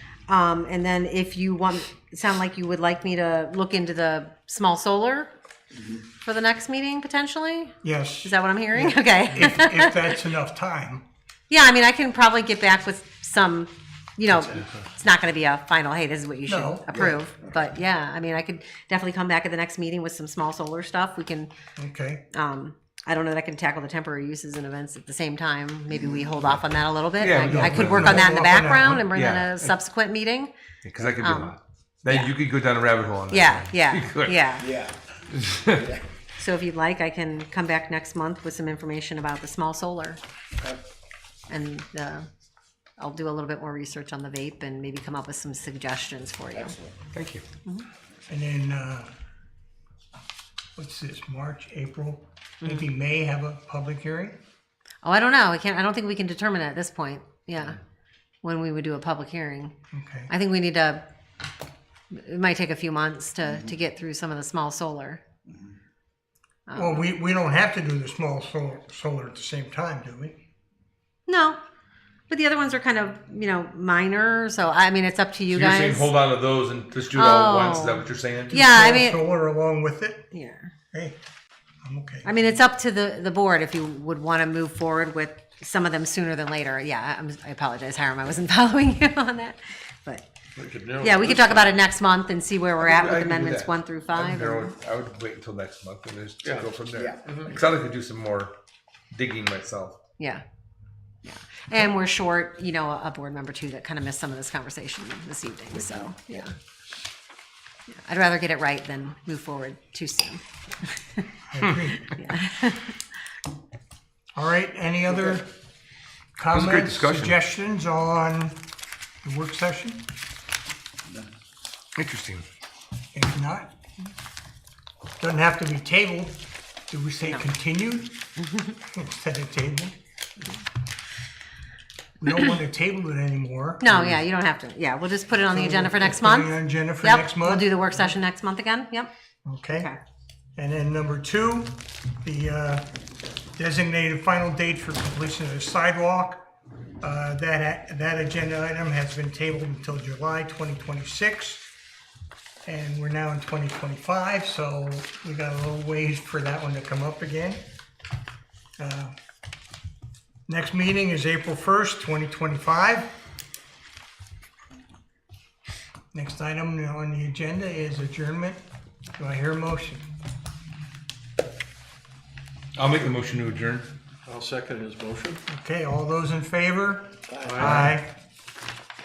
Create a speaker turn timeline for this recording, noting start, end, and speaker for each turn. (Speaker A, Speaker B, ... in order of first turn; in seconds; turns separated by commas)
Speaker A: 0.3-5.3, Speaker A: 6.2-10.2, Speaker B: 7.8-11.0, Speaker A: 11.5-21.5, Speaker B: 16.4-17.2, Speaker B: 21.8-22.3, Speaker A: 22.3-30.5, Speaker C: 27.2-29.7, Speaker B: 27.4-29.1, Speaker C: 30.8-34.6, Speaker A: 31.2-32.3, Speaker A: 33.3-34.8, Speaker C: 35.3-36.0, Speaker A: 36.4-40.2, Speaker A: 41.5-42.3, Speaker A: 43.0-46.8, Speaker C: 47.1-47.4, Speaker B: 48.3-49.1, Speaker B: 50.8-54.4, Speaker A: 55.0-57.8, Speaker A: 58.4-59.7, Speaker B: 59.9-60.3, Speaker A: 60.3-61.0, Speaker A: 62.1-65.2, Speaker A: 66.7-67.1, Speaker B: 66.8-70.4, Speaker A: 71.3-71.6, Speaker A: 72.3-76.1, Speaker C: 75.5-78.5, Speaker A: 77.1-79.2, Speaker B: 78.5-80.3, Speaker A: 80.3-80.7, Speaker B: 80.9-81.2, Speaker B: 81.8-82.3, Speaker A: 82.2-90.2, Speaker D: 90.5-91.8, Speaker A: 91.0-94.7, Speaker C: 92.8-98.5, Speaker D: 96.4-96.7, Speaker D: 97.2-97.5, Speaker C: 99.1-100.0, Speaker A: 101.2-106.5, Speaker A: 107.9-111.3, Speaker B: 111.5-112.1, Speaker A: 111.9-113.0, Speaker B: 114.3-115.5, Speaker B: 116.4-118.6, Speaker C: 116.5-117.4, Speaker B: 119.2-120.1, Speaker C: 122.0-122.4, Speaker B: 123.1-123.7, Speaker B: 125.2-128.2, Speaker B: 128.9-129.9, Speaker B: 132.2-134.2, Speaker A: 133.8-139.1, Speaker B: 135.5-137.8, Speaker B: 139.4-139.9, Speaker A: 139.7-140.0, Speaker B: 140.6-142.9, Speaker B: 143.6-146.4, Speaker B: 147.0-151.6, Speaker B: 152.7-157.6, Speaker B: 158.8-159.1, Speaker B: 160.5-163.1, Speaker B: 166.1-168.6, Speaker B: 169.2-170.1, Speaker C: 172.8-173.9, Speaker D: 174.3-175.4, Speaker B: 175.5-178.2, Speaker D: 177.4-178.0